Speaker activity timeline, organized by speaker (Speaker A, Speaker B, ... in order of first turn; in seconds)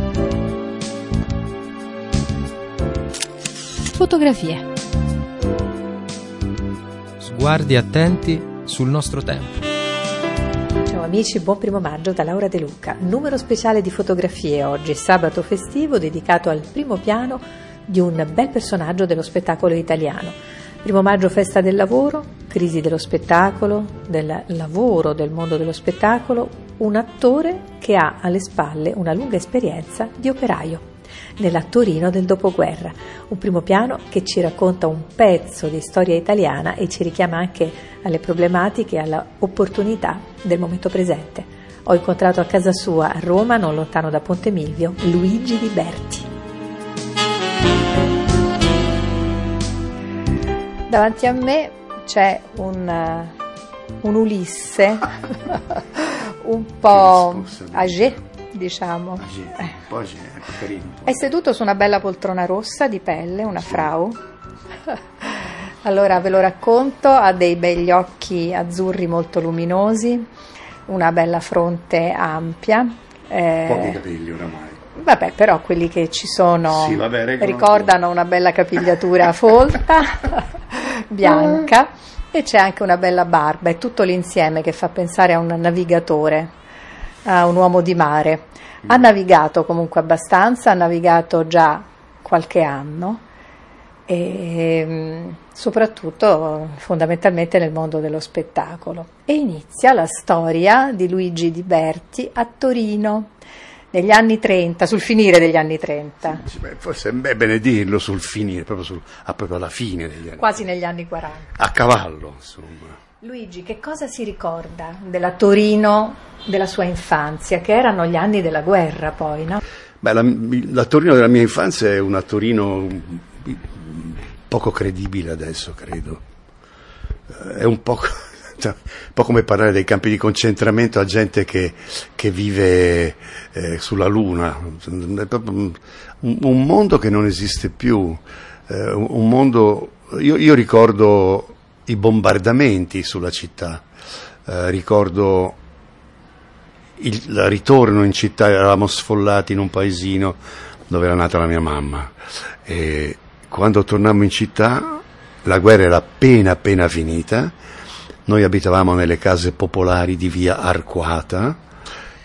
Speaker A: 3.9-4.7, 10.9-30.9, 31.4-46.3, 50.9-53.4, 54.0-59.7, 61.0-64.2, 65.2-70.3, 70.9-74.0, 75.0-86.5, 87.2-93.2, 94.1-103.3, 103.9-106.4, 110.4-111.5, 113.2-119.6
Speaker B: 7.2-9.6
Speaker C: 56.9-58.2, 59.2-61.3, 73.6-74.8, 76.7-77.9, 106.4-110.6, 111.5-113.0, 120.0-126.2, 127.3-143.8, 144.4-145.6, 147.0-157.6, 158.2-161.6